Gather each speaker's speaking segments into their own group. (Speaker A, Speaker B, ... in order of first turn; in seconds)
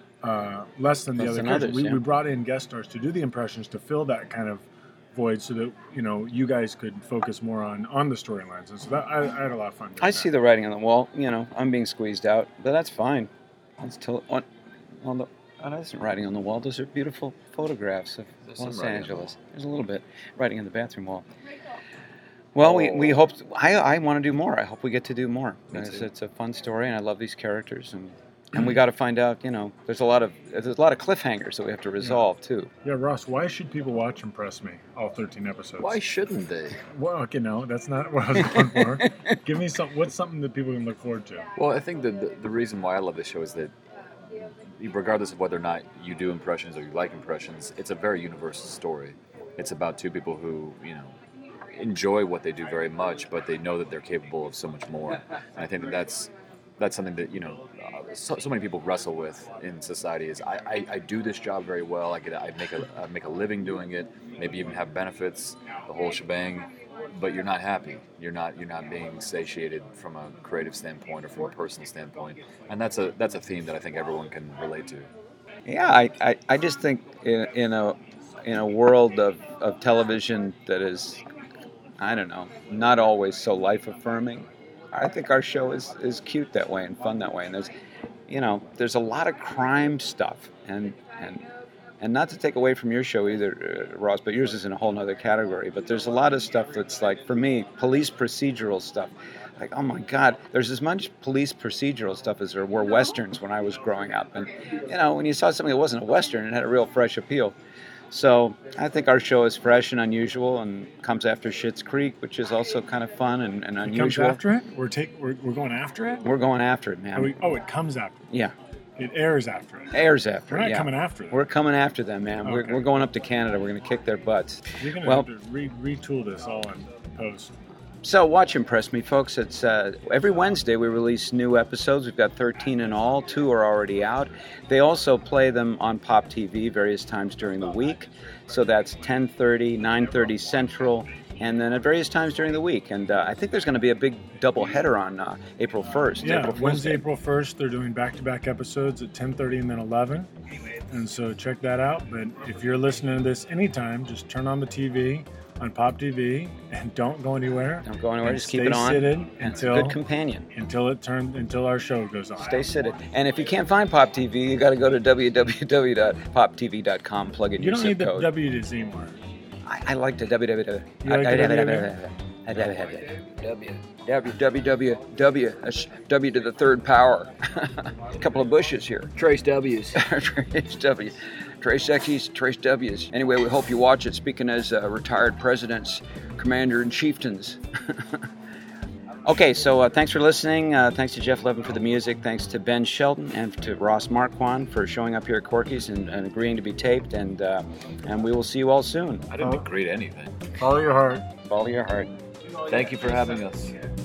Speaker A: 0.2-10.3, 32.8-36.0, 36.9-41.5, 113.8-116.3, 117.1-118.2, 119.0-120.0, 120.5-121.4, 122.4-122.8, 124.8-127.5, 146.2-150.3, 150.9-160.0, 160.5-162.7, 167.6-169.2, 171.0-171.9, 199.4-199.7, 200.6-201.3
Speaker B: 1.2-2.0, 10.0-14.5, 15.0-21.2, 22.5-32.7, 75.7-81.2, 82.0-87.7, 88.3-91.5, 92.0-107.5, 108.1-114.4, 116.2-117.4, 119.9-125.3, 128.0-147.0, 157.8-160.5, 162.4-168.3, 169.6-173.2, 174.2-179.1, 179.9-188.2, 189.2-199.3, 201.4-202.1
Speaker C: 18.4-19.3, 22.6-23.2, 25.7-26.1, 35.8-36.8, 41.5-43.7, 44.3-51.1, 51.7-75.1, 173.4-174.3, 179.2-180.0, 199.3-200.3, 202.6-203.8